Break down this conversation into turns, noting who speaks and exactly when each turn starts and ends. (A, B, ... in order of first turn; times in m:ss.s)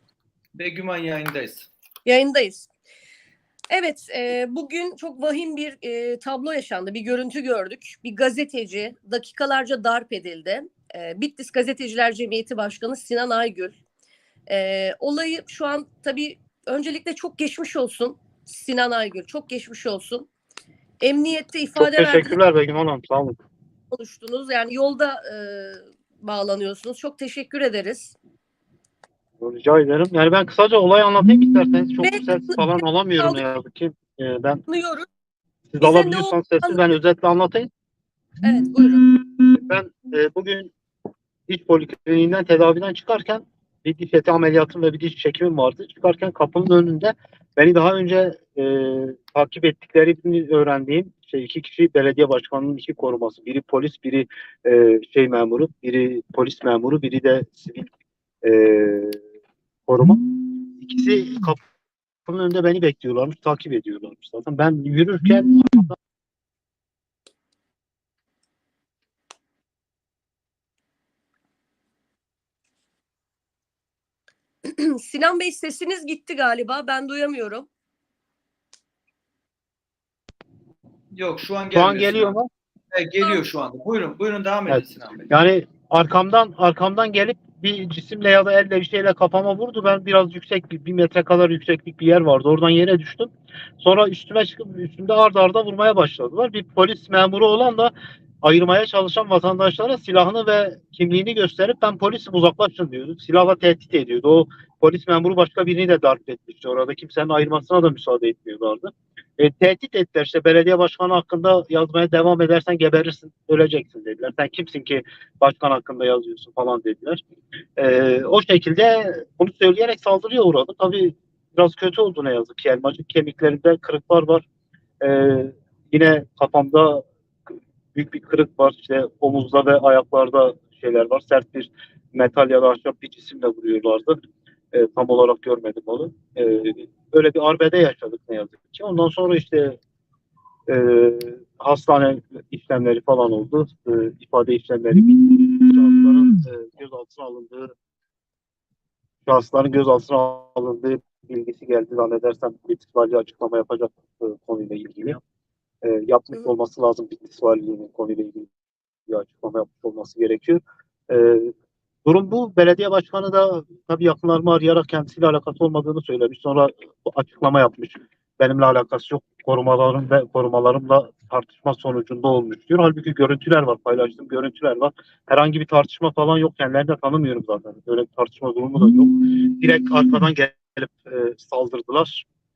0:00.5-0:01.7 A
0:02.0-0:02.7 B
0:03.7-0:13.8 B
0:14.5-0:20.3 B
0:21.0-0:22.4 B
0:21.8-0:23.4 C
0:23.9-0:28.1 B
0:29.4-0:34.6 C
0:32.0-0:32.6 B
0:34.7-0:35.1 B
0:35.7-0:37.7 C
0:35.8-0:36.8 B
0:38.4-0:39.0 B
0:39.2-0:40.7 C
0:41.5-0:57.9 C
0:58.4-0:59.2 C
0:59.9-1:01.6 C
1:02.2-1:06.0 C
1:14.6-1:17.7 B
1:21.1-1:22.3 A
1:21.7-1:22.5 C
1:22.9-1:25.3 A
1:24.7-1:57.2 C
1:57.8-2:04.4 C
2:05.0-2:07.0 C
2:07.9-2:14.2 C
2:14.7-2:19.8 C
2:20.7-2:27.7 C
2:29.2-2:35.2 C
2:35.8-2:38.5 C
2:39.1-2:41.5 C
2:42.0-3:02.2 C